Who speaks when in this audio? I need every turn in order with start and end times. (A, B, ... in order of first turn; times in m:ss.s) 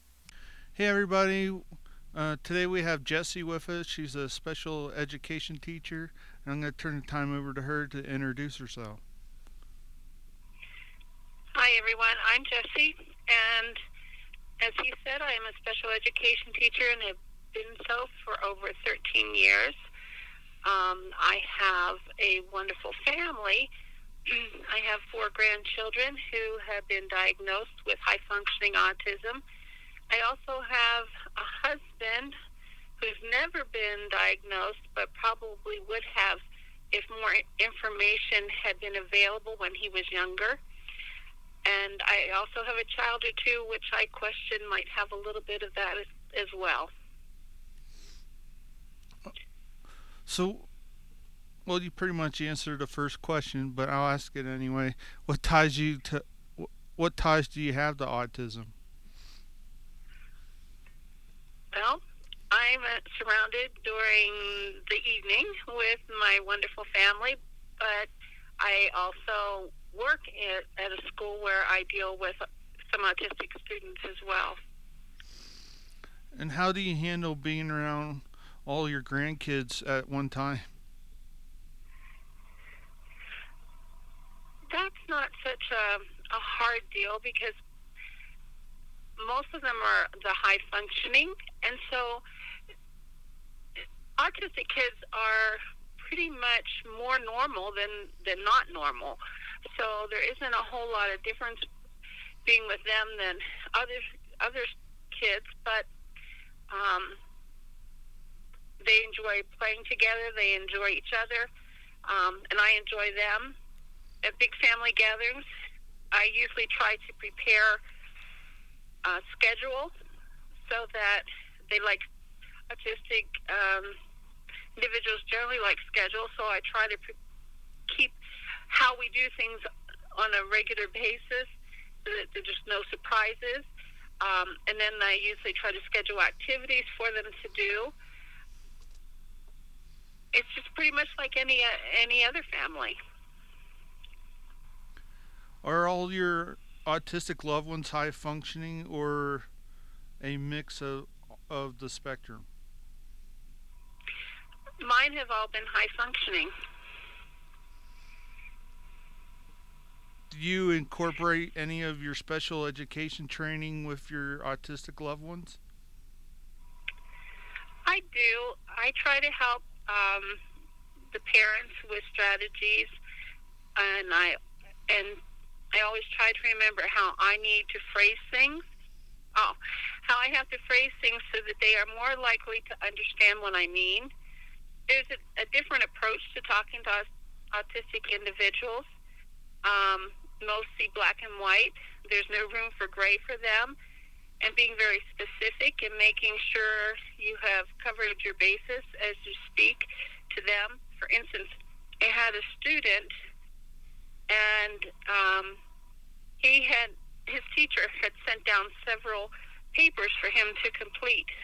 0:00.8-0:09.0 A
0:11.6-0:13.8 B
0:14.6-0:19.7 B
0:20.6-0:23.7 B
0:24.3-0:29.4 B
0:30.1-0:32.3 B
0:33.0-0:36.4 B
0:36.9-0:40.6 B
0:41.6-0:46.9 B
0:50.2-0:50.7 A
0:51.6-0:58.7 A
1:01.7-1:14.6 B
1:16.3-1:20.7 A
1:24.7-1:27.6 B
1:29.2-1:32.2 B
1:34.2-1:41.6 B
1:42.4-1:45.9 B
1:46.7-1:47.2 B
1:48.8-1:51.5 B
1:52.0-1:53.6 B
1:54.2-1:55.4 B
1:56.1-1:57.8 B
1:59.0-1:59.9 B
2:00.6-2:02.0 B
2:02.7-2:03.9 B
2:04.8-2:07.2 B
2:07.9-2:08.2 B
2:08.7-2:09.6 B
2:10.2-2:11.5 B
2:12.0-2:13.7 B
2:14.2-2:17.9 B
2:20.3-2:23.0 B
2:25.6-2:29.5 A
2:30.2-2:32.4 A
2:34.8-2:36.5 B
2:40.3-2:45.6 A
2:47.8-2:50.4 B
2:51.1-2:52.9 B
2:53.8-2:54.4 B
2:54.9-2:55.2 B
2:55.7-2:58.6 B
2:59.4-3:04.1 B
3:04.9-3:08.9 B
3:09.6-3:13.7 B
3:14.4-3:23.1 B
3:24.3-3:25.6 B
3:26.4-3:31.3 B